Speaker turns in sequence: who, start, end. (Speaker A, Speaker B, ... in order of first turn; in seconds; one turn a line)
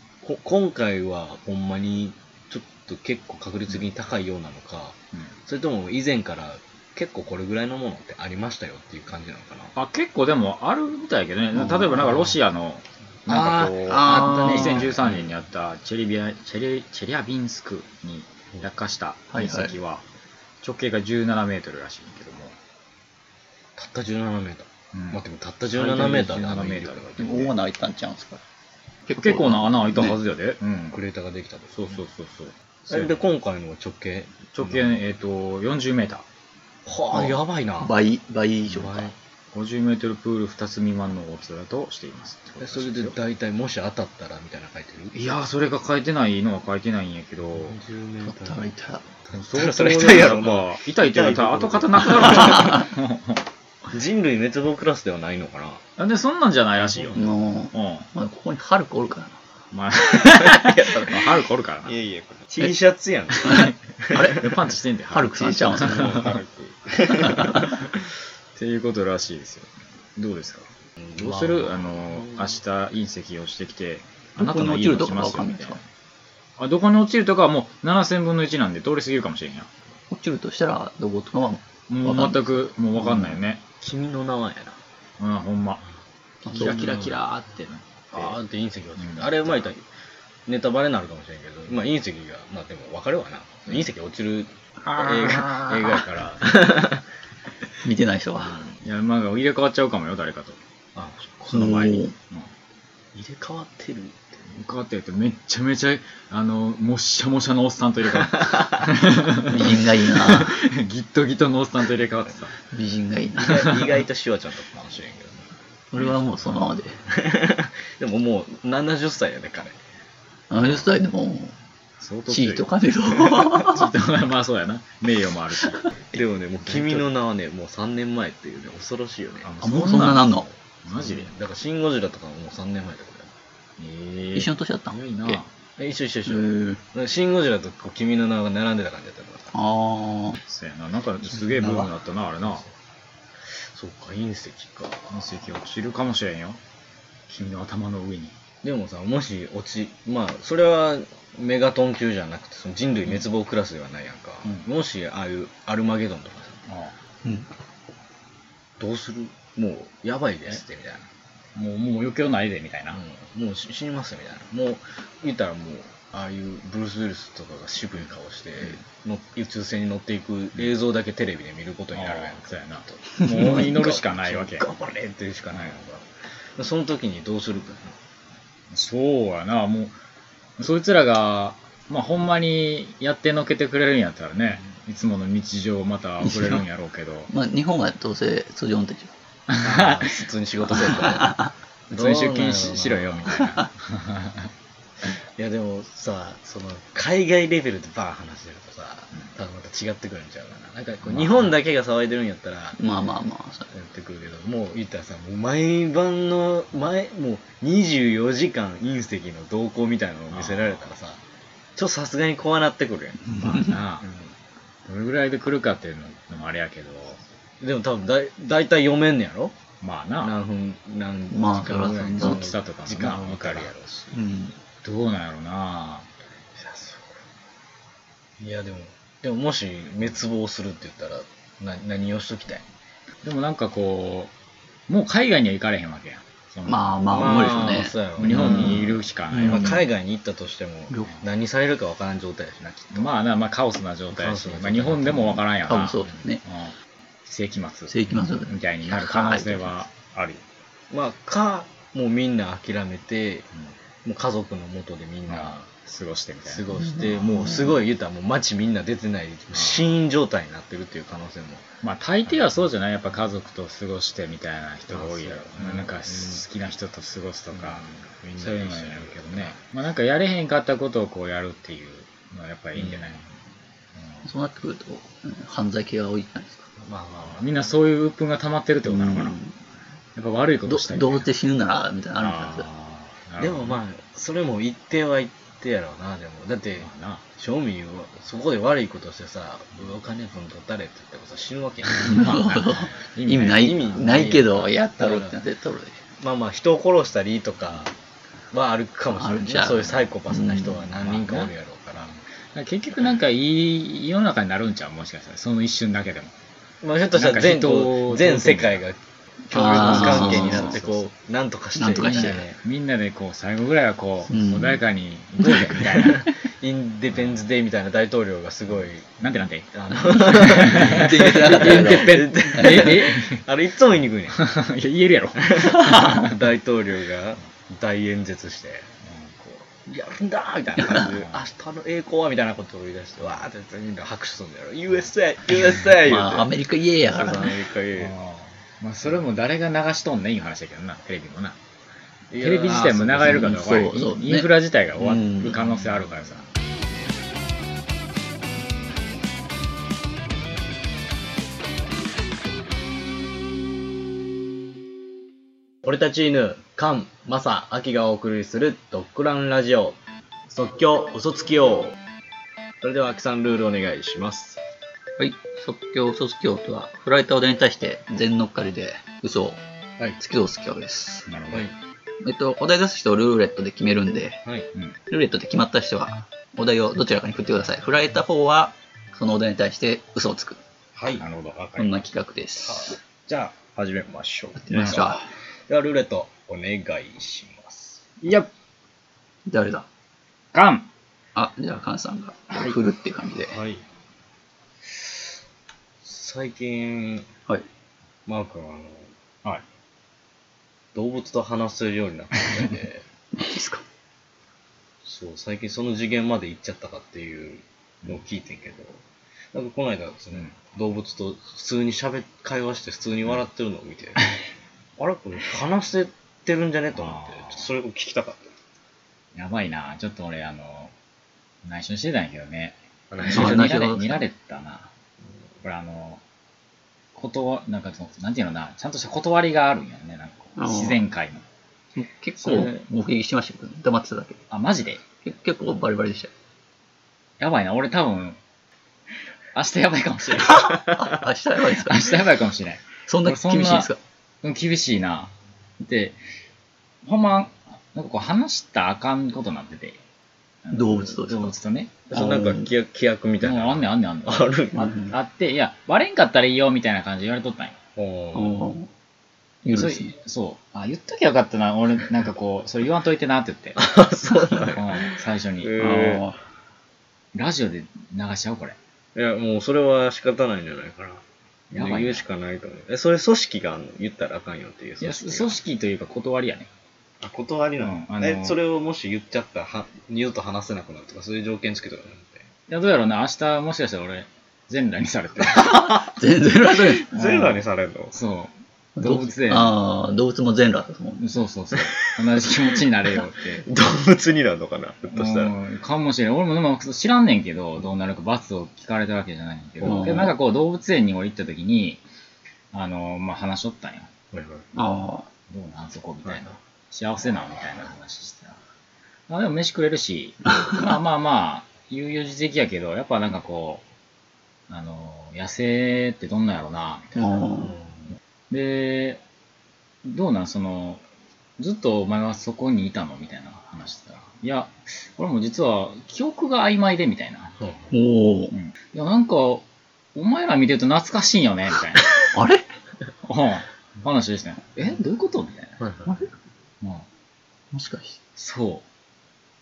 Speaker A: 0.2-9.7
Speaker B: 9.7-20.0
Speaker C: 11.6-12.3
Speaker A: 13.3-15.3
Speaker C: 13.3-14.9
Speaker C: 19.3-19.7
Speaker B: 20.6-22.6
Speaker A: 23.8-27.5
Speaker B: 24.9-25.2
Speaker B: 25.7-27.4
Speaker C: 27.2-28.4
Speaker C: 29.1-30.2
Speaker B: 29.2-31.0
Speaker A: 30.9-32.0
Speaker B: 31.7-33.2
Speaker A: 32.9-35.0
Speaker B: 34.5-36.2
Speaker A: 36.9-37.9
Speaker C: 37.8-39.1
Speaker A: 38.7-39.1
Speaker B: 39.5-43.1
Speaker A: 42.6-45.2
Speaker B: 45.1-47.8
Speaker A: 47.5-48.7
Speaker C: 48.2-49.0
Speaker A: 49.2-52.8
Speaker B: 49.3-53.4
Speaker C: 52.5-52.8
Speaker A: 53.9-55.8
Speaker B: 56.0-58.1
Speaker A: 56.9-57.3
Speaker C: 57.1-59.4
Speaker B: 59.7-61.9
Speaker A: 60.1-64.5
Speaker C: 63.4-64.5
Speaker B: 63.5-66.5
Speaker C: 65.1-66.2
Speaker A: 65.7-67.8
Speaker B: 67.1-67.9
Speaker C: 67.2-67.6
Speaker B: 68.5-75.8
Speaker A: 71.0-72.5
Speaker C: 74.4-75.8
Speaker B: 76.6-79.7
Speaker C: 80.1-83.3
Speaker B: 81.9-83.6
Speaker A: 83.8-84.8
Speaker B: 85.2-85.8
Speaker C: 86.4-87.0
Speaker B: 86.5-88.4
Speaker A: 86.5-87.2
Speaker A: 88.1-89.8
Speaker B: 89.0-89.7
Speaker A: 90.5-97.0
Speaker B: 94.8-96.0
Speaker C: 97.8-98.6
Speaker A: 98.4-98.8
Speaker B: 98.8-100.6
Speaker A: 100.9-101.8
Speaker C: 101.5-102.1
Speaker B: 101.5-102.5
Speaker A: 103.1-104.5
Speaker B: 104.5-112.5
Speaker A: 108.4-108.7
Speaker C: 109.5-110.6
Speaker C: 112.7-113.8
Speaker A: 113.4-115.5
Speaker C: 115.9-117.0
Speaker A: 117.1-119.8
Speaker C: 120.5-121.5
Speaker B: 122.0-122.7
Speaker C: 122.3-123.8
Speaker B: 123.4-126.0
Speaker A: 126.1-129.5
Speaker B: 126.7-127.0
Speaker B: 129.4-131.3
Speaker C: 129.6-130.5
Speaker A: 130.9-133.3
Speaker B: 133.8-135.5
Speaker C: 134.3-135.4
Speaker A: 135.8-139.5
Speaker C: 136.3-136.8
Speaker C: 139.5-140.4
Speaker B: 140.4-142.6
Speaker C: 141.6-141.9
Speaker A: 143.5-145.2
Speaker B: 145.1-146.6
Speaker B: 147.3-148.3
Speaker A: 148.6-156.6
Speaker B: 156.7-156.9
Speaker A: 158.8-161.1
Speaker B: 161.5-163.0
Speaker A: 162.9-178.0
Speaker B: 171.9-174.7
Speaker B: 175.5-175.8
Speaker B: 178.7-179.9
Speaker B: 180.6-187.3
Speaker C: 186.2-186.6
Speaker C: 187.3-189.1
Speaker B: 189.5-190.2
Speaker A: 189.6-193.4
Speaker C: 191.0-191.5
Speaker B: 191.9-194.5
Speaker A: 195.2-202.8
Speaker B: 201.0-201.5
Speaker C: 202.8-203.7
Speaker A: 203.7-211.2
Speaker B: 210.3-210.8
Speaker A: 211.8-213.4
Speaker B: 213.3-214.1
Speaker A: 214.0-214.3
Speaker B: 214.8-217.2
Speaker A: 217.6-219.5
Speaker B: 219.8-220.3
Speaker A: 220.2-224.1
Speaker C: 221.3-222.4
Speaker B: 221.6-223.7
Speaker C: 224.1-224.6
Speaker B: 224.8-226.1
Speaker A: 226.6-227.2
Speaker A: 228.4-232.7
Speaker B: 233.2-234.3
Speaker B: 234.9-239.8
Speaker C: 236.7-239.8
Speaker A: 237.1-243.1
Speaker B: 242.9-250.4
Speaker A: 244.1-245.4
Speaker C: 245.7-246.4
Speaker C: 247.9-249.7
Speaker A: 250.9-253.5
Speaker A: 254.0-255.7
Speaker B: 255.3-257.5
Speaker A: 256.5-261.7
Speaker C: 256.8-257.6
Speaker B: 259.5-259.9
Speaker B: 261.8-267.9
Speaker A: 264.9-266.4
Speaker A: 267.5-269.6
Speaker B: 268.4-273.2
Speaker A: 272.7-273.2
Speaker C: 274.2-276.7
Speaker A: 276.8-277.4
Speaker B: 277.2-279.4
Speaker C: 278.9-279.5
Speaker B: 280.1-281.3
Speaker C: 280.7-282.7
Speaker B: 282.1-283.8
Speaker A: 283.4-292.3
Speaker B: 286.8-287.2
Speaker B: 292.0-293.9
Speaker C: 292.0-296.0
Speaker A: 293.5-295.4
Speaker A: 296.2-297.9
Speaker A: 298.5-302.1
Speaker C: 299.1-300.8
Speaker B: 301.0-301.5
Speaker B: 302.5-306.3
Speaker A: 306.8-308.9
Speaker B: 307.1-308.8
Speaker A: 309.5-312.6
Speaker C: 309.5-310.8
Speaker B: 309.5-311.1
Speaker C: 311.8-312.5
Speaker B: 312.1-316.3
Speaker C: 314.3-314.8
Speaker A: 315.8-319.2
Speaker B: 319.2-323.4
Speaker A: 319.7-324.5
Speaker C: 320.1-323.0
Speaker B: 324.3-326.4
Speaker A: 325.4-328.9
Speaker B: 329.0-329.5
Speaker A: 329.7-336.5
Speaker B: 331.0-331.4
Speaker C: 336.0-337.6
Speaker A: 337.0-338.1
Speaker B: 338.0-341.6
Speaker A: 342.3-343.5
Speaker B: 342.4-346.5
Speaker C: 343.2-345.6
Speaker A: 355.8-360.0
Speaker A: 360.5-362.0
Speaker A: 362.8-364.6
Speaker C: 365.2-369.6
Speaker C: 370.2-371.3
Speaker B: 371.3-371.7
Speaker C: 372.2-374.4
Speaker A: 374.4-374.7
Speaker C: 375.1-380.6
Speaker A: 380.9-381.2
Speaker B: 381.2-382.0
Speaker C: 381.8-383.0
Speaker A: 382.6-388.1
Speaker C: 384.6-385.3
Speaker B: 384.7-385.1
Speaker B: 388.2-388.5
Speaker C: 389.5-389.9
Speaker B: 390.5-390.9
Speaker C: 391.3-393.6
Speaker B: 392.5-392.8
Speaker A: 393.5-393.8
Speaker A: 396.0-397.3
Speaker A: 398.2-399.1
Speaker A: 400.9-403.0
Speaker C: 403.3-403.8
Speaker A: 405.0-409.0
Speaker A: 409.5-414.3
Speaker A: 415.0-418.5
Speaker B: 416.9-417.7
Speaker B: 419.3-420.9
Speaker B: 421.6-424.9
Speaker A: 423.1-423.7
Speaker C: 423.3-424.2
Speaker B: 425.6-426.2
Speaker B: 427.1-431.4
Speaker C: 430.6-431.0
Speaker C: 431.9-434.4
Speaker B: 432.4-432.8
Speaker B: 434.5-435.0
Speaker C: 435.2-436.3
Speaker B: 437.4-438.4
Speaker B: 439.5-440.8
Speaker C: 440.6-442.2
Speaker B: 441.8-443.9
Speaker C: 443.1-444.0
Speaker B: 444.4-446.2
Speaker B: 447.0-450.0
Speaker B: 450.6-452.0
Speaker C: 450.7-451.5
Speaker A: 452.1-455.0
Speaker C: 452.1-452.7
Speaker B: 453.4-457.8
Speaker C: 454.7-455.1
Speaker A: 457.9-458.7
Speaker C: 458.3-458.9
Speaker C: 459.6-460.1
Speaker B: 459.7-463.8
Speaker A: 463.8-466.2
Speaker B: 464.7-465.8
Speaker C: 465.8-466.4
Speaker B: 467.3-468.8
Speaker A: 469.1-475.6
Speaker B: 471.7-472.2
Speaker B: 475.0-476.7
Speaker A: 477.2-482.4
Speaker B: 477.8-478.6
Speaker B: 482.7-485.9
Speaker C: 485.6-487.3
Speaker A: 486.9-488.2
Speaker B: 487.2-487.5
Speaker B: 488.1-489.8
Speaker C: 489.0-491.2
Speaker B: 491.2-493.6
Speaker A: 491.7-492.6
Speaker A: 493.6-495.5
Speaker B: 495.1-502.0
Speaker C: 499.8-500.3
Speaker B: 502.7-504.1
Speaker A: 504.3-504.7
Speaker C: 504.7-505.3
Speaker B: 505.5-508.6
Speaker B: 509.3-513.8
Speaker B: 514.7-517.4
Speaker C: 517.1-517.8
Speaker A: 517.6-518.0
Speaker B: 518.5-519.2
Speaker B: 520.0-521.0
Speaker B: 521.6-527.5
Speaker A: 527.6-527.9
Speaker C: 527.9-528.5
Speaker B: 528.5-532.1
Speaker C: 532.3-532.6
Speaker B: 533.2-535.8
Speaker A: 535.8-536.1
Speaker B: 536.8-537.0
Speaker C: 537.7-538.2
Speaker B: 538.4-538.8